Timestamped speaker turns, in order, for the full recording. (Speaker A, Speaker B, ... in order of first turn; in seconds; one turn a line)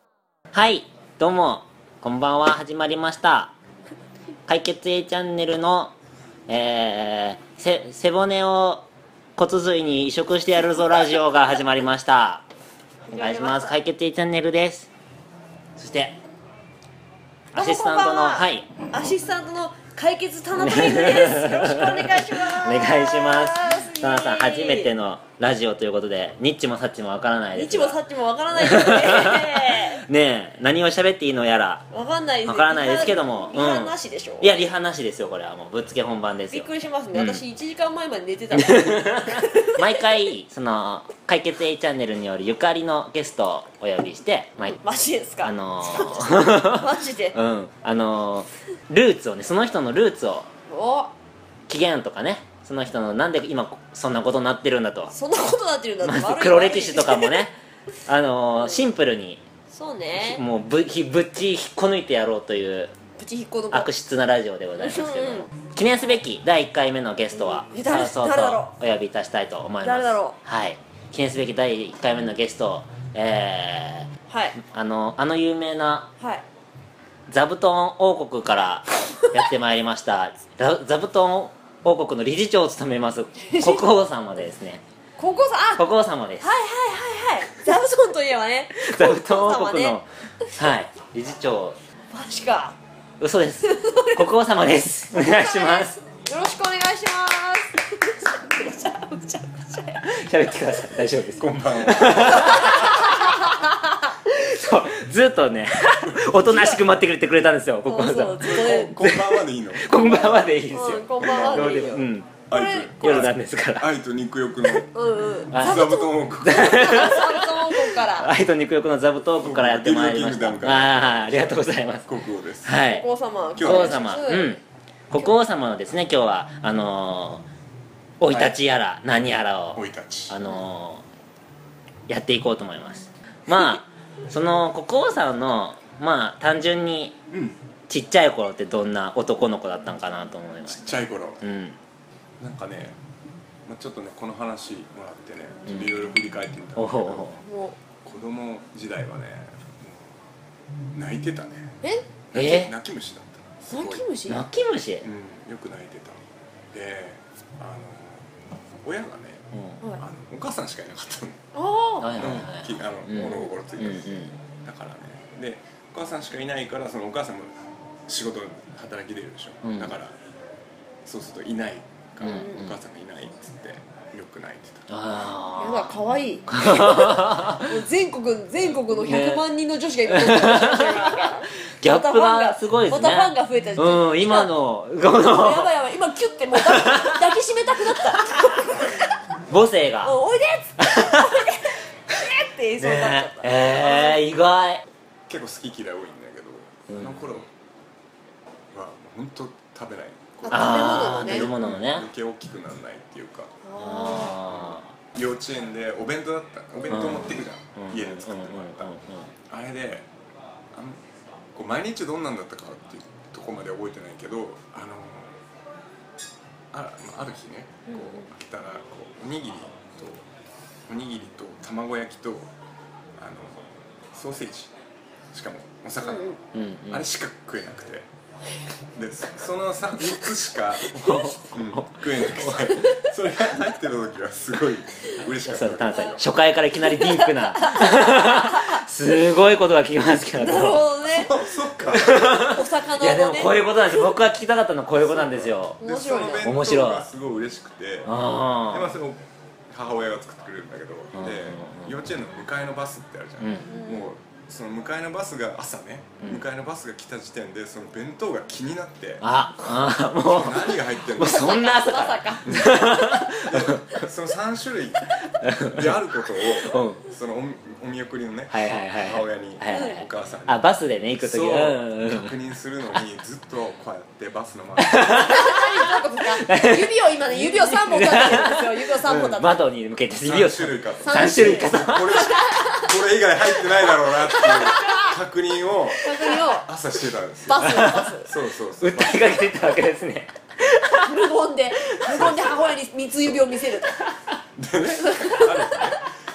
Speaker A: 0.5-3.5
Speaker A: 4.5-5.9
Speaker A: 6.5-8.9
Speaker A: 9.4-12.5
Speaker B: 13.1-13.8
Speaker A: 13.1-14.9
Speaker A: 15.8-16.2
Speaker A: 17.5-18.7
Speaker B: 17.5-24.9
Speaker A: 20.6-28.0
Speaker B: 27.5-30.0
Speaker A: 28.6-31.9
Speaker B: 31.9-34.6
Speaker A: 32.5-37.4
Speaker B: 36.5-40.0
Speaker A: 38.5-44.8
Speaker B: 44.6-47.4
Speaker A: 45.4-50.5
Speaker B: 50.7-51.1
Speaker A: 51.7-55.1
Speaker B: 55.1-57.5
Speaker A: 56.0-57.5
Speaker A: 58.1-59.4
Speaker B: 58.6-58.9
Speaker B: 59.7-60.5
Speaker A: 60.2-62.9
Speaker B: 63.2-63.9
Speaker A: 63.7-74.1
Speaker B: 64.8-65.5
Speaker B: 67.3-68.8
Speaker B: 69.8-70.4
Speaker B: 74.3-74.6
Speaker A: 74.6-76.1
Speaker B: 76.2-76.5
Speaker A: 77.3-84.8
Speaker B: 83.4-83.9
Speaker B: 85.2-85.8
Speaker A: 85.8-86.5
Speaker B: 86.4-90.0
Speaker A: 88.8-91.8
Speaker B: 92.1-92.8
Speaker A: 93.2-96.0
Speaker B: 93.6-94.2
Speaker B: 95.1-100.0
Speaker A: 100.0-103.2
Speaker C: 101.3-102.9
Speaker B: 102.1-103.9
Speaker A: 104.2-112.5
Speaker C: 106.0-106.8
Speaker B: 106.5-106.8
Speaker B: 107.9-109.0
Speaker C: 108.4-110.5
Speaker B: 110.0-113.3
Speaker C: 111.2-117.2
Speaker A: 113.0-113.9
Speaker B: 114.9-118.3
Speaker A: 115.5-115.9
Speaker A: 116.4-122.1
Speaker C: 119.4-122.8
Speaker A: 122.7-123.0
Speaker B: 122.8-124.6
Speaker C: 123.5-124.1
Speaker A: 123.6-127.5
Speaker A: 128.2-131.1
Speaker C: 128.3-128.6
Speaker C: 129.7-130.4
Speaker A: 132.1-137.2
Speaker C: 137.3-137.6
Speaker A: 137.9-141.8
Speaker C: 140.7-141.4
Speaker C: 142.4-143.0
Speaker C: 143.7-147.3
Speaker A: 145.7-146.0
Speaker A: 146.8-147.4
Speaker B: 147.4-147.8
Speaker C: 148.0-150.2
Speaker C: 150.9-151.8
Speaker B: 151.8-152.1
Speaker C: 152.3-154.1
Speaker A: 152.3-152.7
Speaker B: 153.7-154.5
Speaker A: 154.3-155.1
Speaker C: 155.0-156.2
Speaker C: 156.7-161.4
Speaker A: 159.5-159.8
Speaker B: 161.5-162.2
Speaker A: 162.0-164.3
Speaker C: 162.2-167.5
Speaker C: 168.1-170.2
Speaker A: 169.6-169.9
Speaker C: 171.1-174.9
Speaker A: 172.2-172.7
Speaker B: 172.2-172.7
Speaker A: 174.9-176.0
Speaker B: 175.6-189.1
Speaker A: 176.5-177.7
Speaker A: 179.0-179.4
Speaker A: 180.1-185.7
Speaker A: 186.6-187.3
Speaker A: 189.5-190.2
Speaker B: 190.0-194.2
Speaker A: 190.8-191.4
Speaker A: 192.8-194.8
Speaker C: 195.3-197.5
Speaker A: 196.9-197.3
Speaker C: 198.7-203.5
Speaker B: 200.4-201.6
Speaker A: 200.5-202.1
Speaker B: 203.6-204.5
Speaker A: 203.8-204.9
Speaker C: 204.5-208.9
Speaker A: 206.9-209.3
Speaker C: 209.5-210.1
Speaker C: 210.7-211.0
Speaker C: 211.6-215.4
Speaker C: 216.7-220.2
Speaker B: 217.9-218.3
Speaker C: 220.9-222.5
Speaker C: 223.2-224.7
Speaker C: 225.3-228.1
Speaker B: 226.0-226.4
Speaker A: 226.5-227.1
Speaker C: 229.0-236.3
Speaker B: 230.8-231.2
Speaker A: 231.0-232.7
Speaker B: 232.7-233.1
Speaker A: 235.2-240.9
Speaker B: 235.8-238.8
Speaker B: 240.3-244.2
Speaker C: 241.1-242.4
Speaker A: 241.9-245.8
Speaker C: 245.2-248.1
Speaker B: 245.8-246.6
Speaker A: 246.4-247.1
Speaker A: 248.1-248.9
Speaker C: 248.7-261.6
Speaker A: 251.1-252.0
Speaker A: 253.4-253.7
Speaker B: 253.7-254.1
Speaker A: 259.2-263.8
Speaker B: 261.2-262.5
Speaker C: 262.4-262.8
Speaker C: 263.5-265.1
Speaker A: 265.4-266.0
Speaker C: 265.6-275.3
Speaker A: 266.6-267.0
Speaker A: 268.5-272.3
Speaker B: 269.7-270.1
Speaker A: 274.8-275.6
Speaker B: 275.2-279.6
Speaker A: 276.4-282.3
Speaker C: 280.2-289.6
Speaker B: 281.0-285.2
Speaker B: 285.9-286.7
Speaker B: 287.5-288.4
Speaker A: 287.6-288.1
Speaker A: 288.8-291.2
Speaker B: 291.0-294.1
Speaker A: 292.1-292.5
Speaker C: 292.1-292.8
Speaker C: 294.6-296.1
Speaker B: 295.0-296.0